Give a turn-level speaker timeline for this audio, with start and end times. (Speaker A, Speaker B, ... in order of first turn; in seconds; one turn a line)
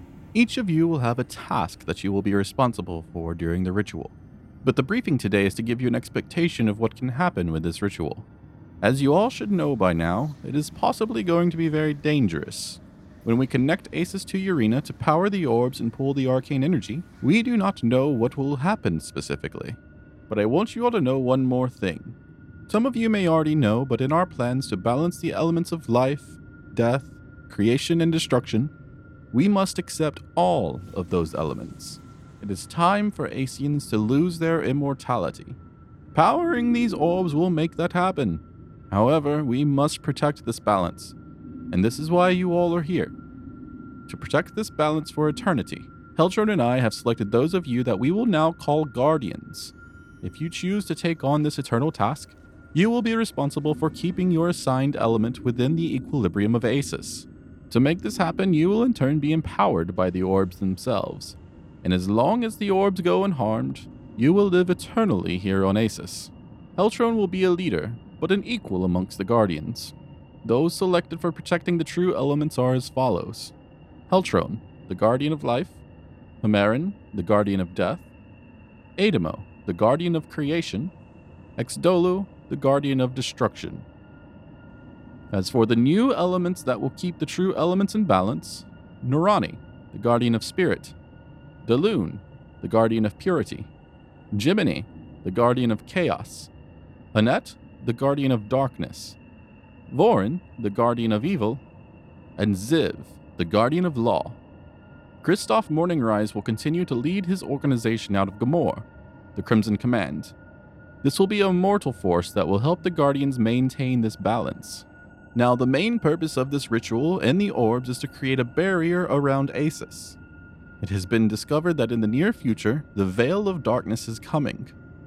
Speaker A: 0.3-8.2
Speaker A: 8.8-19.8
Speaker A: 20.3-22.1
Speaker A: 22.7-28.7
Speaker A: 29.3-35.6
Speaker A: 36.1-41.1
Speaker A: 41.7-43.1
Speaker A: 44.1-73.5
Speaker A: 74.1-75.8
Speaker A: 76.4-78.0
Speaker A: 79.0-80.9
Speaker A: 81.6-83.8
Speaker A: 85.3-90.9
Speaker A: 91.6-93.7
Speaker A: 94.3-96.5
Speaker A: 97.1-99.2
Speaker A: 99.9-101.6
Speaker A: 102.4-104.4
Speaker A: 105.2-110.3
Speaker A: 111.0-120.2
Speaker A: 120.8-124.7